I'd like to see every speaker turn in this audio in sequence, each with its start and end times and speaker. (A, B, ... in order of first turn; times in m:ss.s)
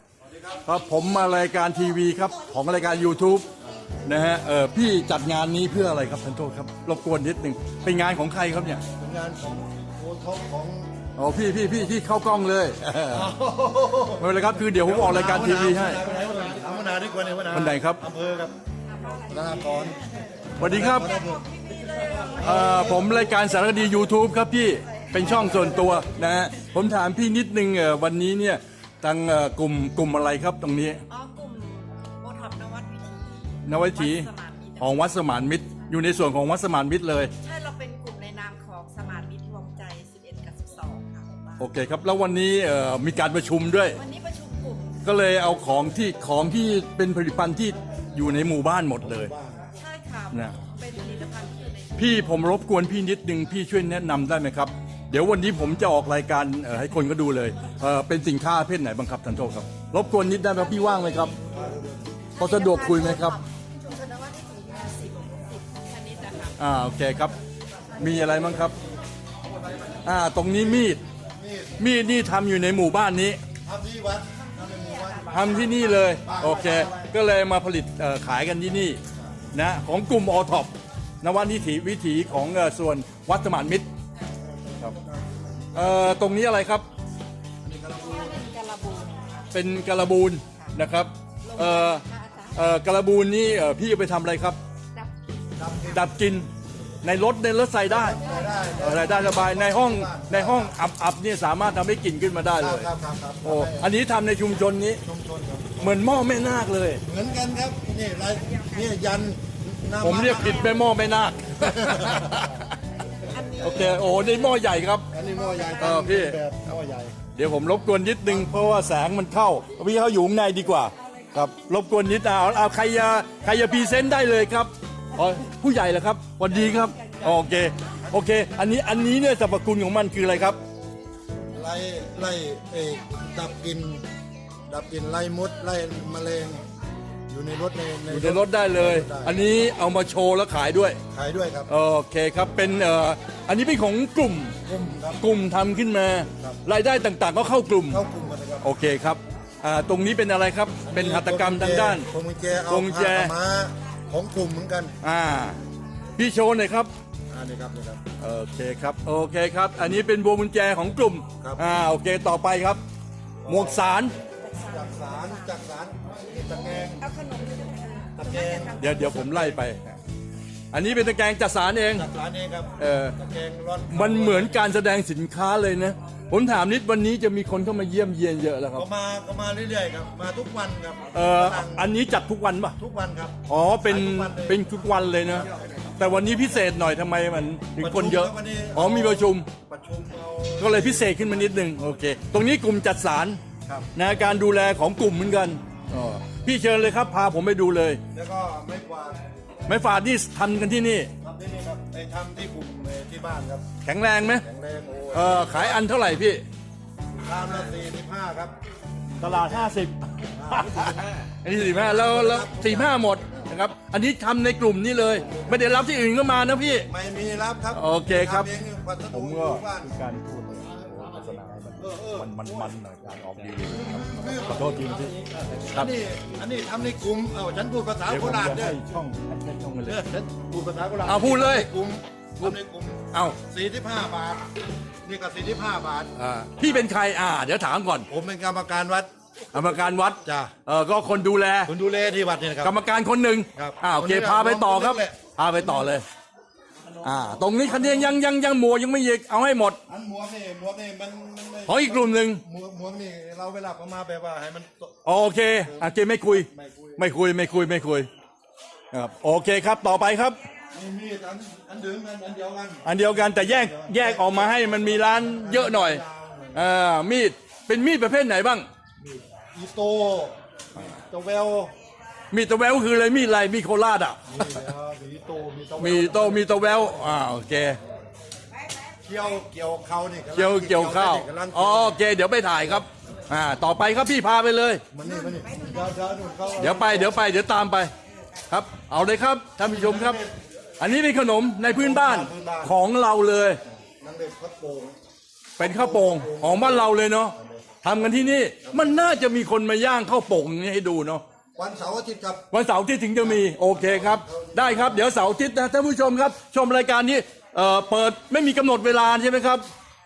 0:00.2-0:00.6 A
0:00.7-0:03.5 B
0:03.6-0:04.0 A
0:04.0-0:08.8 B
0:08.9-0:11.0 A
0:11.2-0:13.3 B
0:13.1-0:18.6 A
0:14.2-0:16.1 B
0:17.5-0:18.0 B
0:18.9-0:20.0 C
0:19.3-0:21.5 A
0:20.6-0:21.2 B
0:20.8-0:23.7 C
0:22.3-0:23.4 A
0:22.4-0:31.0 B
0:24.8-0:26.0 C
0:25.2-0:26.0 A
0:31.1-0:35.1 C
0:33.7-0:37.3 B
0:37.4-0:41.7 C
0:41.6-0:44.0 B
0:44.0-0:45.0 C
0:45.0-0:49.3 B
0:49.0-0:49.7 A
0:49.8-0:52.3 C
0:50.3-0:50.6 B
0:52.0-1:01.4 B
1:01.4-1:02.2 A
1:02.4-1:03.4 B
1:02.4-1:06.6 C
1:06.6-1:07.3 B
1:08.0-1:08.8 B
1:08.0-1:08.9 A
1:09.6-1:11.8 A
1:10.0-1:11.0 B
1:11.8-1:13.4 B
1:13.6-1:15.6 A
1:14.7-1:16.2 C
1:15.3-1:19.0 B
1:16.2-1:17.1 A
1:19.5-1:23.9 B
1:24.4-1:26.2 A
1:25.7-1:26.9 B
1:27.6-1:28.4 A
1:28.0-1:29.5 C
1:29.5-1:34.6 B
1:31.4-1:32.8 C
1:35.6-1:36.1 A
1:35.9-1:36.5 B
1:37.0-1:38.2 B
1:37.9-1:40.8 A
1:38.0-1:39.1 C
1:38.8-1:42.9 B
1:42.6-1:43.9 A
1:43.4-1:45.0 B
1:45.0-1:46.0 A
1:45.8-1:47.0 B
1:47.0-1:50.8 A
1:50.0-1:52.8 B
1:51.5-1:52.7 A
1:53.1-1:54.4 C
1:53.2-1:53.9 A
1:53.6-1:55.1 B
1:55.1-1:57.2 A
1:55.8-1:56.4 B
1:57.4-2:10.6 B
2:06.7-2:08.2 A
2:11.5-2:14.0 A
2:14.7-2:16.6 A
2:17.3-2:19.4 A
2:18.1-2:21.0 B
2:21.1-2:21.7 A
2:21.7-2:24.6 B
2:24.6-2:25.2 A
2:25.2-2:28.0 B
2:26.3-2:26.6 A
2:27.9-2:28.7 A
2:28.6-2:32.1 B
2:30.8-2:35.0 A
2:32.7-2:33.3 B
2:35.0-2:35.6 B
2:36.2-2:36.9 B
2:37.3-2:38.0 A
2:38.2-2:42.8 B
2:41.4-2:41.6 A
2:43.4-2:43.9 A
2:43.5-2:44.1 B
2:44.5-2:45.4 C
2:44.5-2:47.1 A
2:47.0-2:49.2 C
2:48.1-2:49.6 A
2:48.8-2:50.0 B
2:50.7-2:52.1 B
2:51.9-2:54.7 A
2:52.8-2:53.2 B
2:53.9-2:58.9 B
2:58.8-3:01.9 A
3:01.1-3:02.8 B
3:02.8-3:06.3 A
3:03.5-3:09.5 B
3:07.8-3:11.5 A
3:10.6-3:13.4 B
3:13.6-3:14.0 A
3:14.0-3:18.0 B
3:18.1-3:19.2 A
3:19.7-3:21.1 B
3:21.2-3:23.7 A
3:23.8-3:24.4 B
3:24.4-3:25.8 A
3:25.1-3:26.4 B
3:27.2-3:28.6 A
3:29.2-3:29.7 A
3:29.2-3:36.9 B
3:30.3-3:33.0 A
3:35.2-3:35.6 A
3:36.9-3:39.9 A
3:37.7-3:38.5 B
3:39.1-3:46.0 B
3:41.3-3:48.8 A
3:48.1-3:50.0 B
3:49.9-3:54.5 A
3:51.0-3:51.7 B
3:53.1-3:53.4 B
3:55.0-3:56.1 A
3:56.2-3:58.1 B
3:58.1-3:59.1 A
3:59.5-4:01.7 B
4:00.2-4:00.6 A
4:01.7-4:02.8 A
4:02.6-4:06.0 B
4:03.6-4:05.9 A
4:06.8-4:08.2 A
4:07.0-4:09.8 B
4:09.9-4:15.0 A
4:11.7-4:12.4 B
4:15.0-4:18.1 B
4:15.6-4:17.1 A
4:18.9-4:20.4 B
4:20.7-4:26.7 A
4:22.8-4:26.0 B
4:26.5-4:28.7 B
4:29.0-4:31.7 A
4:32.3-4:34.7 B
4:34.3-4:37.4 A
4:35.8-4:37.8 B
4:39.0-4:42.0 A
4:40.4-4:44.8 B
4:44.9-4:47.2 A
4:45.0-4:46.3 C
4:46.6-4:47.9 B
4:48.5-4:50.2 B
4:49.7-4:50.4 A
4:50.8-4:53.6 B
4:51.7-4:52.8 A
4:53.9-4:55.0 A
4:55.6-5:01.2 B
4:55.6-4:59.1 A
5:01.6-5:02.5 A
5:02.5-5:09.6 B
5:03.2-5:05.1 A